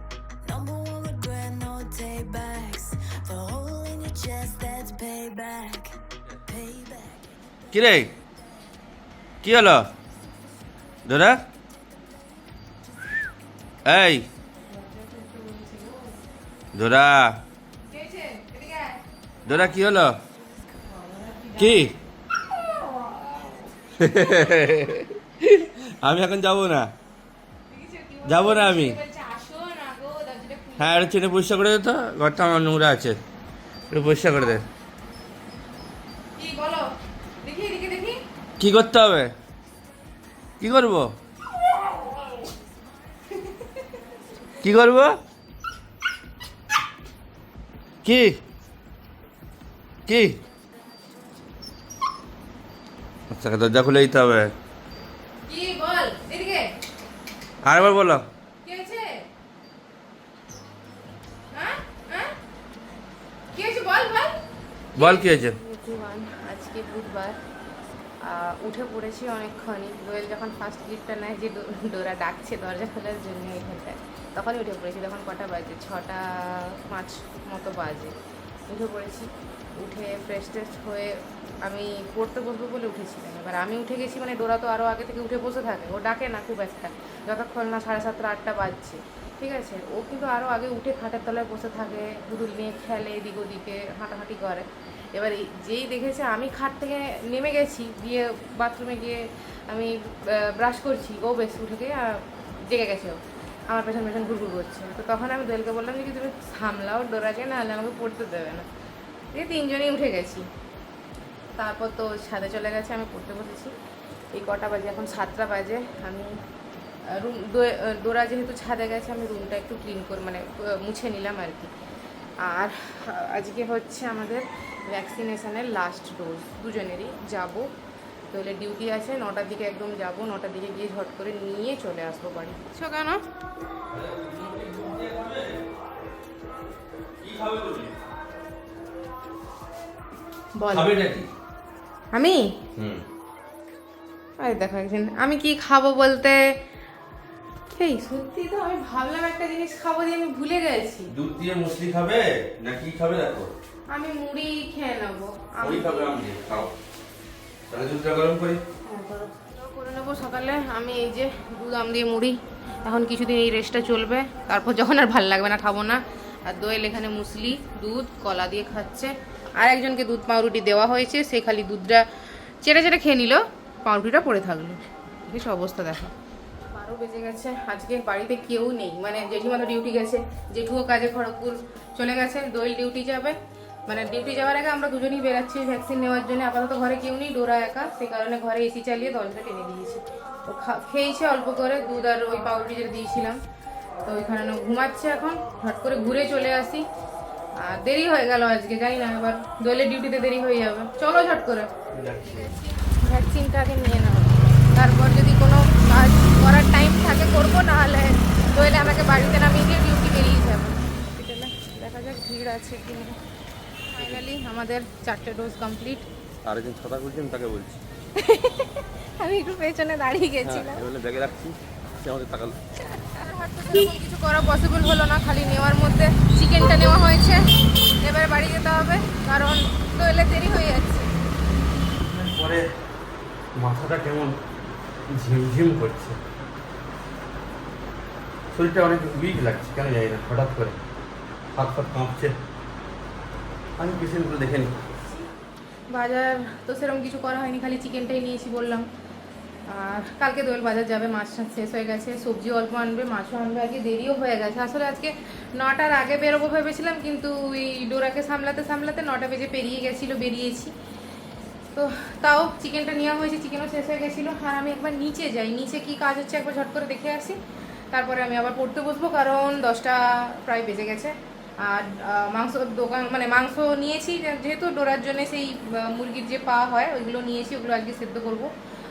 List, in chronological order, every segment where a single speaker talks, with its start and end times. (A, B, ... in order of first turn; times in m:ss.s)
0:00.4-0:07.2 A
0:07.7-0:08.1 B
0:09.4-0:09.9 B
0:11.0-0:11.4 B
0:13.8-0:14.3 B
0:14.7-0:16.2 C
0:16.7-0:17.4 B
0:17.9-0:19.0 C
0:19.4-0:20.2 B
0:20.8-0:24.7 C
0:21.6-0:22.0 B
0:24.0-0:26.9 B
0:27.7-0:31.1 C
0:28.2-0:29.0 B
0:30.8-0:33.2 B
0:33.9-0:34.7 B
0:36.4-0:36.9 C
0:37.4-0:38.2 C
0:38.6-0:39.3 B
0:40.6-0:41.1 B
0:43.4-0:43.8 C
0:44.6-0:45.2 B
0:48.0-0:48.4 B
0:50.1-0:50.4 B
0:53.3-0:54.5 B
0:55.5-0:56.7 C
0:57.6-0:58.3 B
0:58.6-0:59.2 C
1:01.5-1:02.3 C
1:03.5-1:04.4 C
1:04.9-1:07.4 C
1:05.0-1:05.6 B
1:08.2-1:18.1 C
1:18.7-1:48.7 C
1:49.3-1:50.5 C
1:51.6-1:53.7 C
1:54.3-1:56.4 C
1:57.1-2:01.7 C
2:02.4-2:07.7 C
2:08.3-2:13.2 C
2:13.9-2:15.6 B
2:17.2-2:18.0 B
2:20.6-2:20.9 C
2:20.7-2:21.3 B
2:22.1-2:22.5 C
2:22.8-2:23.0 B
2:24.4-2:26.5 C
2:27.8-2:31.1 C
2:31.1-2:33.5 B
2:33.9-2:36.5 C
2:35.6-2:36.7 B
2:37.7-2:38.6 B
2:38.8-2:52.1 C
2:52.6-2:56.1 C
2:56.6-3:13.4 C
3:14.0-3:16.8 C
3:17.6-3:33.2 C
3:21.9-3:22.5 B
3:33.9-3:36.1 C
3:36.4-3:37.8 B
3:38.1-3:40.8 C
3:40.4-3:42.6 B
3:42.9-3:47.4 C
3:48.0-3:51.1 C
3:52.0-3:52.7 B
3:53.5-3:54.4 B
3:55.1-3:56.2 B
3:58.5-4:00.8 B
4:01.5-4:02.3 B
4:03.8-4:04.8 B
4:05.9-4:08.8 C
4:09.7-4:20.7 C
4:21.7-4:27.4 C
4:27.9-4:38.5 C